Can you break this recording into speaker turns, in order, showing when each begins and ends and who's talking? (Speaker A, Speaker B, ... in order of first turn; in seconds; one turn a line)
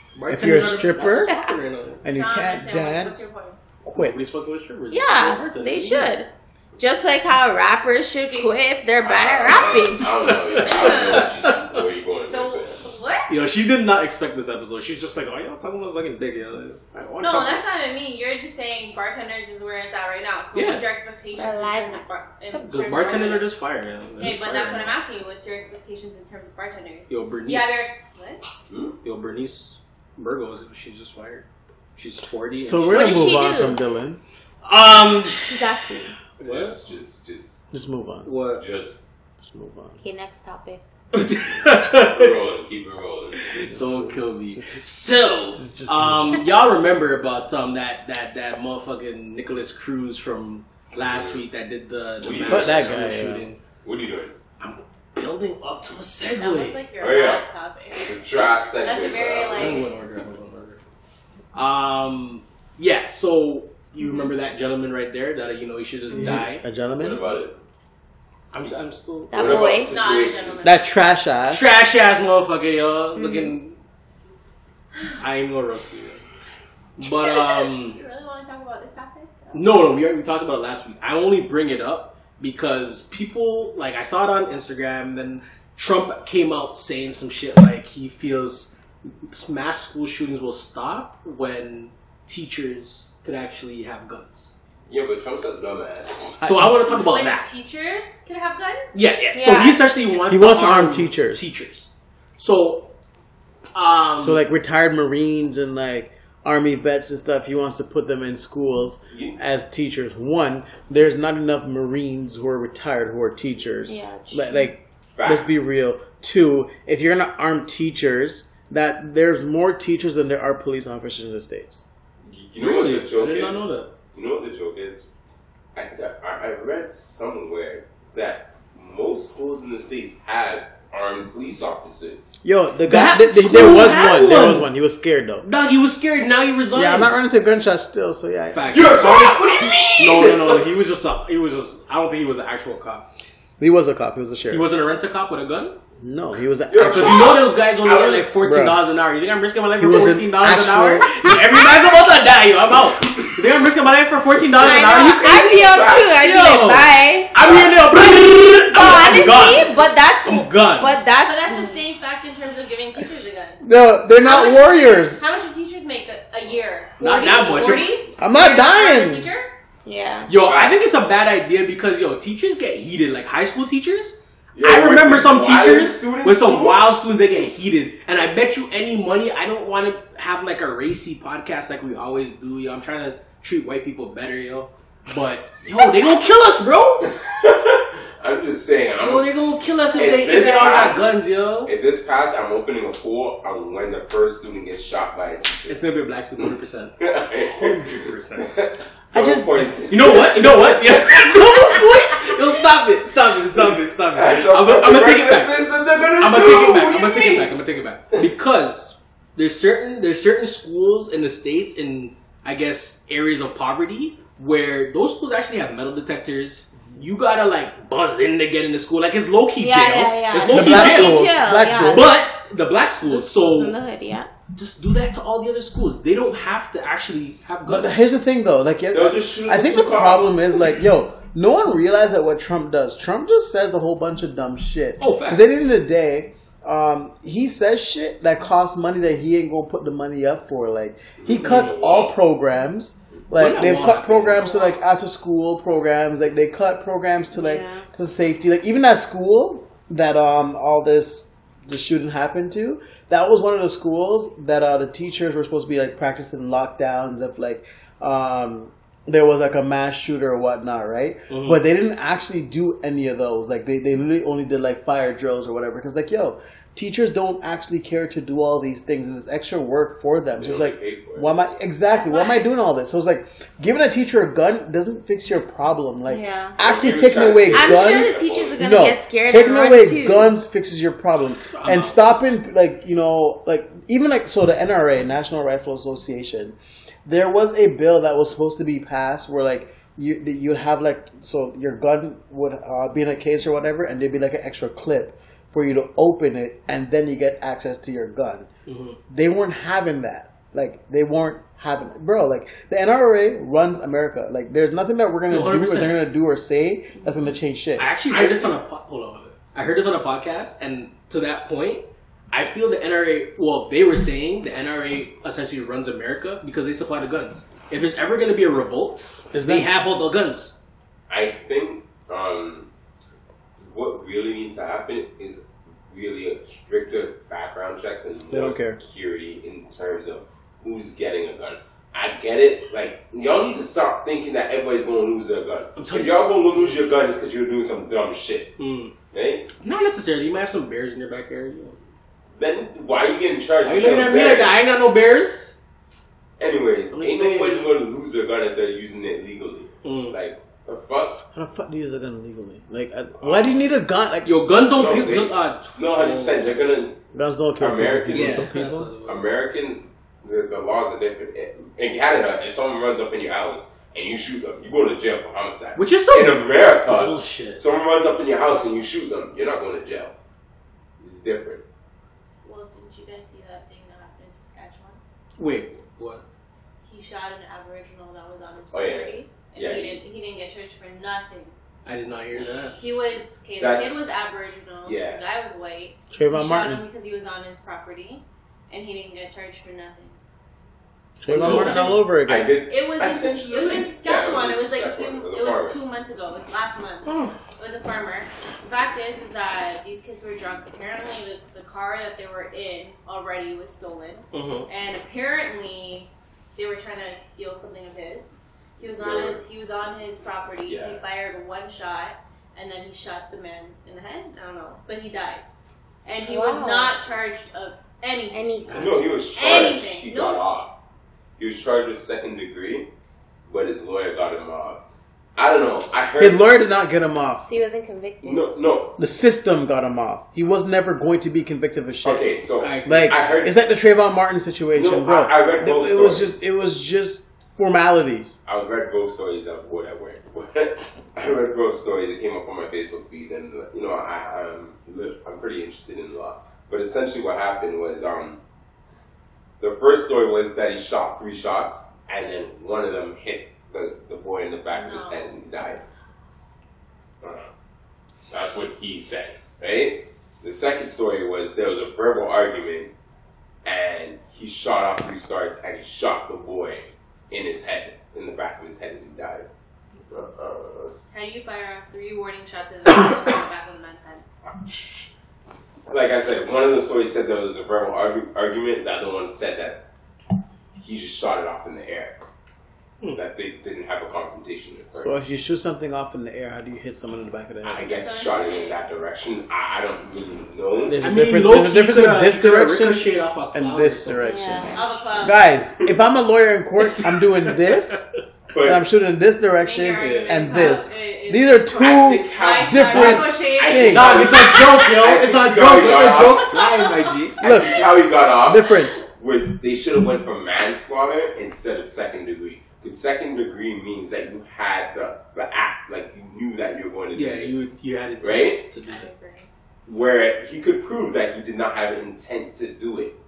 Speaker A: 0.1-2.0
Speaker B: 0.3-1.3
Speaker B: 2.0-3.3
Speaker C: 2.0-3.6
Speaker B: 3.8-4.2
Speaker A: 4.0-6.1
Speaker D: 4.9-10.3
Speaker C: 8.2-8.6
Speaker E: 9.0-12.8
Speaker A: 10.3-11.8
Speaker C: 10.6-11.5
Speaker C: 12.1-13.3
Speaker A: 13.3-17.6
Speaker C: 17.2-23.6
Speaker A: 20.5-20.9
Speaker D: 21.4-23.4
Speaker A: 22.7-25.0
Speaker C: 24.2-28.4
Speaker A: 27.1-27.9
Speaker E: 28.7-29.0
Speaker A: 29.0-33.3
Speaker B: 32.5-34.2
Speaker D: 32.9-33.8
Speaker A: 34.6-35.7
Speaker D: 35.5-36.1
Speaker A: 36.4-36.8
Speaker E: 36.4-37.7
Speaker B: 37.7-38.3
Speaker A: 38.2-38.6
Speaker E: 38.6-39.0
Speaker B: 39.4-40.0
Speaker D: 40.0-40.8
Speaker A: 41.1-42.4
Speaker E: 41.7-43.6
Speaker A: 43.4-53.6
Speaker B: 43.6-44.8
Speaker B: 45.6-46.4
Speaker E: 50.9-51.4
Speaker E: 52.2-53.0
Speaker B: 52.4-53.5
Speaker E: 53.8-54.4
Speaker A: 54.6-56.8
Speaker C: 56.3-59.9
Speaker E: 57.0-57.4
Speaker E: 58.0-59.9
Speaker A: 59.5-60.8
Speaker A: 61.5-66.6
Speaker D: 64.0-64.3
Speaker B: 66.1-67.2
Speaker E: 67.0-67.6
Speaker A: 68.5-69.7
Speaker D: 69.3-69.9
Speaker E: 69.3-70.7
Speaker C: 69.7-70.9
Speaker B: 70.6-71.8
Speaker A: 71.5-73.8
Speaker D: 73.2-73.5
Speaker A: 75.2-76.2
Speaker A: 77.0-78.0
Speaker C: 77.8-79.7
Speaker A: 79.5-88.8
Speaker A: 89.3-94.5
Speaker E: 94.9-96.4
Speaker B: 96.4-96.8
Speaker A: 96.4-97.5
Speaker C: 96.8-99.0
Speaker A: 98.9-102.9
Speaker D: 99.3-99.8
Speaker B: 100.3-101.5
Speaker A: 103.7-104.4
Speaker B: 104.2-121.8
Speaker E: 109.1-109.4
Speaker D: 113.9-114.7
Speaker E: 115.1-115.6
Speaker E: 122.2-125.0
Speaker A: 122.6-123.9
Speaker E: 125.8-132.3
Speaker B: 132.4-135.5
Speaker A: 132.9-134.7
Speaker A: 135.4-137.1
Speaker B: 136.7-139.0
Speaker A: 138.5-143.1
Speaker E: 138.7-140.7
Speaker B: 143.6-144.7
Speaker A: 144.5-145.8
Speaker B: 146.0-147.4
Speaker E: 146.7-148.3
Speaker A: 146.8-161.0
Speaker B: 148.4-148.8
Speaker B: 149.8-151.3
Speaker D: 154.5-157.3
Speaker E: 155.3-156.2
Speaker E: 157.4-157.8
Speaker D: 158.2-161.8
Speaker C: 161.2-163.6
Speaker B: 163.6-165.3
Speaker C: 164.2-169.5
Speaker A: 167.0-167.9
Speaker B: 168.2-169.3
Speaker D: 169.8-170.3
Speaker A: 170.3-187.1
Speaker E: 170.4-170.8
Speaker E: 174.5-176.9
Speaker E: 187.1-189.3
Speaker A: 189.0-191.7
Speaker E: 189.9-195.8
Speaker A: 195.7-198.6
Speaker E: 197.0-201.6
Speaker B: 199.1-199.8
Speaker A: 199.9-221.3
Speaker E: 203.7-207.6
Speaker D: 219.6-222.1
Speaker B: 220.5-222.1
Speaker A: 221.8-223.8
Speaker D: 223.0-224.3
Speaker A: 224.5-228.1
Speaker B: 227.7-298.5
Speaker E: 228.9-230.7
Speaker A: 235.0-235.6
Speaker E: 241.2-242.2
Speaker A: 243.3-244.7
Speaker D: 247.3-247.9
Speaker A: 261.3-261.6
Speaker E: 270.4-271.3
Speaker C: 271.9-272.6
Speaker D: 276.1-276.6
Speaker E: 276.6-278.6
Speaker D: 277.5-280.3
Speaker A: 281.5-282.0
Speaker A: 298.7-299.0
Speaker B: 299.1-308.5
Speaker A: 305.3-306.1
Speaker A: 307.8-320.6
Speaker B: 319.3-319.7
Speaker E: 321.1-322.7
Speaker E: 323.6-338.5
Speaker B: 328.3-328.8
Speaker A: 335.8-336.8
Speaker A: 338.6-338.9
Speaker E: 339.1-339.5
Speaker A: 339.6-341.8
Speaker E: 342.4-344.7
Speaker A: 343.6-345.6
Speaker E: 346.4-351.2
Speaker A: 346.9-347.7
Speaker A: 349.8-350.2
Speaker B: 351.3-354.3
Speaker E: 353.2-353.6
Speaker A: 354.2-356.6
Speaker E: 354.7-357.0
Speaker B: 357.1-358.9
Speaker E: 357.6-358.5
Speaker A: 358.1-359.4
Speaker E: 359.1-370.1
Speaker A: 365.8-367.6
Speaker E: 371.0-371.6
Speaker C: 372.4-375.0
Speaker A: 375.4-376.2
Speaker C: 376.9-381.5
Speaker E: 378.7-380.0
Speaker A: 381.9-382.8
Speaker C: 382.8-390.2
Speaker E: 383.6-383.9
Speaker E: 384.9-385.2
Speaker B: 386.1-386.8
Speaker B: 391.2-392.6
Speaker A: 391.3-392.0
Speaker E: 391.3-395.8
Speaker C: 391.4-391.9
Speaker C: 392.7-415.4
Speaker A: 397.1-397.4
Speaker A: 404.3-404.7
Speaker E: 408.9-409.4
Speaker E: 410.7-411.0
Speaker C: 416.1-418.6
Speaker D: 416.1-417.0
Speaker D: 418.3-419.1
Speaker A: 418.7-419.0
Speaker E: 418.7-420.7
Speaker C: 419.3-420.4
Speaker E: 421.4-422.9
Speaker E: 423.5-424.8
Speaker E: 425.4-426.4
Speaker B: 426.2-427.5
Speaker D: 427.4-428.5
Speaker E: 428.2-429.0
Speaker B: 429.0-432.3
Speaker E: 432.0-433.6
Speaker A: 432.6-433.3
Speaker B: 432.9-438.4
Speaker E: 434.7-436.4
Speaker E: 438.5-448.4
Speaker E: 449.6-455.8
Speaker C: 454.7-455.4
Speaker E: 457.2-457.5
Speaker E: 458.3-462.9
Speaker E: 463.6-469.5
Speaker E: 470.1-471.0
Speaker C: 471.1-474.2
Speaker E: 475.9-479.9
Speaker E: 480.8-482.2
Speaker E: 483.1-485.3
Speaker B: 484.9-487.9
Speaker E: 487.6-491.0
Speaker C: 487.8-488.8
Speaker B: 490.9-498.1
Speaker A: 491.0-494.4
Speaker D: 494.2-494.7
Speaker C: 494.7-495.4
Speaker A: 496.8-498.0
Speaker E: 498.5-498.8
Speaker B: 498.6-504.2
Speaker C: 499.5-504.8
Speaker E: 501.8-506.6
Speaker A: 503.7-507.4
Speaker C: 506.4-507.3
Speaker E: 507.4-518.7
Speaker B: 507.4-509.0
Speaker A: 517.1-519.1
Speaker C: 518.8-519.5
Speaker E: 519.9-523.2